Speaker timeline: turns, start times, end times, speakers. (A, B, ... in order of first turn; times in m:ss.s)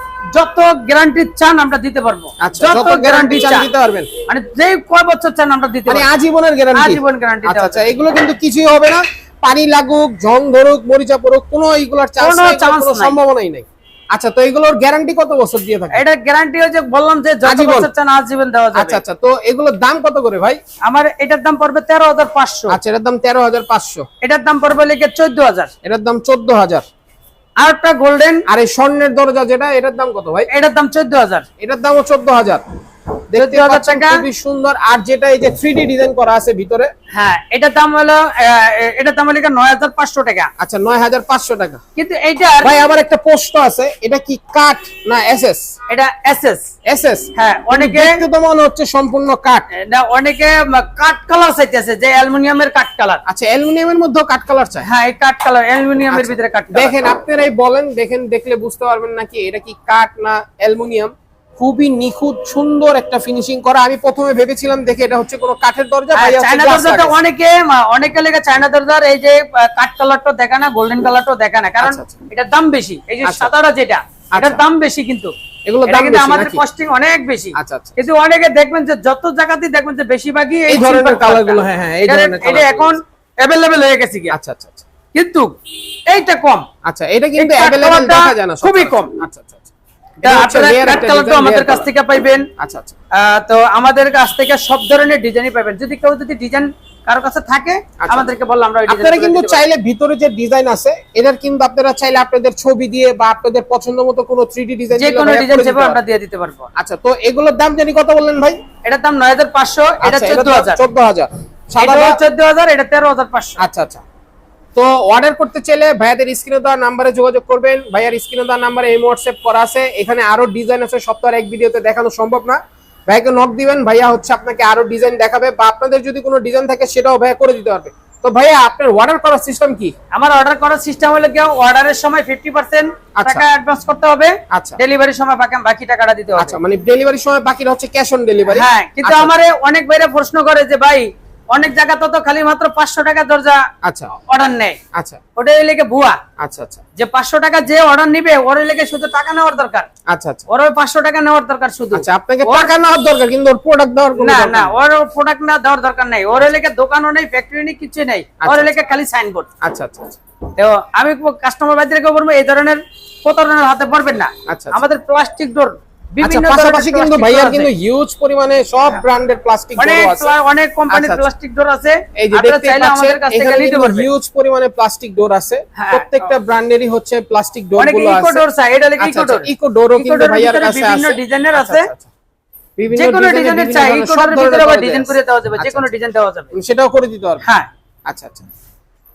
0:00.3-0:03.7 A
0:02.4-0:04.1 B
0:04.3-0:06.1 A
0:05.9-0:16.0 B
0:06.7-0:07.9 A
0:12.2-0:13.2 A
0:15.9-0:19.0 A
0:17.4-0:17.9 B
0:18.8-0:20.6 B
0:20.8-0:22.8 A
0:22.7-0:24.1 B
0:24.2-0:25.7 A
0:25.8-0:26.8 B
0:27.6-0:28.4 A
0:28.5-0:30.5 B
0:30.5-0:31.5 A
0:31.6-0:32.6 B
0:33.3-0:36.9 B
0:33.4-0:34.2 A
0:37.1-0:40.5 A
0:40.6-0:41.8 B
0:42.0-0:42.7 A
0:42.6-0:45.7 B
0:45.9-0:46.7 A
0:46.9-0:49.7 B
0:47.4-0:48.2 A
0:49.7-0:53.2 A
0:53.3-0:54.9 B
0:54.8-0:57.0 A
0:56.1-1:07.2 B
1:06.1-1:15.3 A
1:11.8-1:12.2 B
1:13.2-1:13.5 B
1:14.4-1:14.6 B
1:15.7-1:16.6 B
1:15.8-1:24.4 A
1:17.6-1:18.0 B
1:20.7-1:23.0 B
1:24.3-1:24.8 B
1:25.1-1:25.5 A
1:26.1-1:26.7 A
1:26.8-1:29.7 B
1:27.4-1:29.1 A
1:30.2-1:31.9 B
1:30.2-1:32.5 A
1:32.6-1:33.0 B
1:33.1-1:39.6 A
1:38.0-1:38.3 B
1:38.9-1:46.0 B
1:45.0-1:46.7 A
1:46.8-1:48.6 B
1:48.8-1:50.8 A
1:50.0-1:52.2 B
1:51.8-1:53.6 A
1:53.6-1:54.0 B
1:54.8-2:09.9 B
2:10.1-2:16.6 A
2:13.2-2:13.4 B
2:14.5-2:14.8 B
2:16.4-2:19.3 B
2:18.5-2:23.6 A
2:23.8-2:24.1 B
2:24.2-2:24.8 A
2:24.9-2:25.2 B
2:25.4-2:26.2 A
2:26.4-2:26.8 B
2:27.0-2:29.9 A
2:30.1-2:30.4 B
2:30.5-2:32.7 A
2:31.9-2:34.7 B
2:34.2-2:39.5 A
2:38.4-2:38.7 B
2:39.6-2:40.2 B
2:40.6-2:47.7 A
2:44.5-2:44.8 B
2:46.2-2:50.3 B
2:49.8-2:54.1 A
2:50.9-2:51.2 B
2:52.2-2:58.4 B
2:55.8-2:56.3 A
2:57.8-3:01.9 A
2:59.0-3:02.1 B
3:02.8-3:05.9 B
3:02.9-3:06.5 A
3:06.5-3:07.4 B
3:08.1-3:08.5 B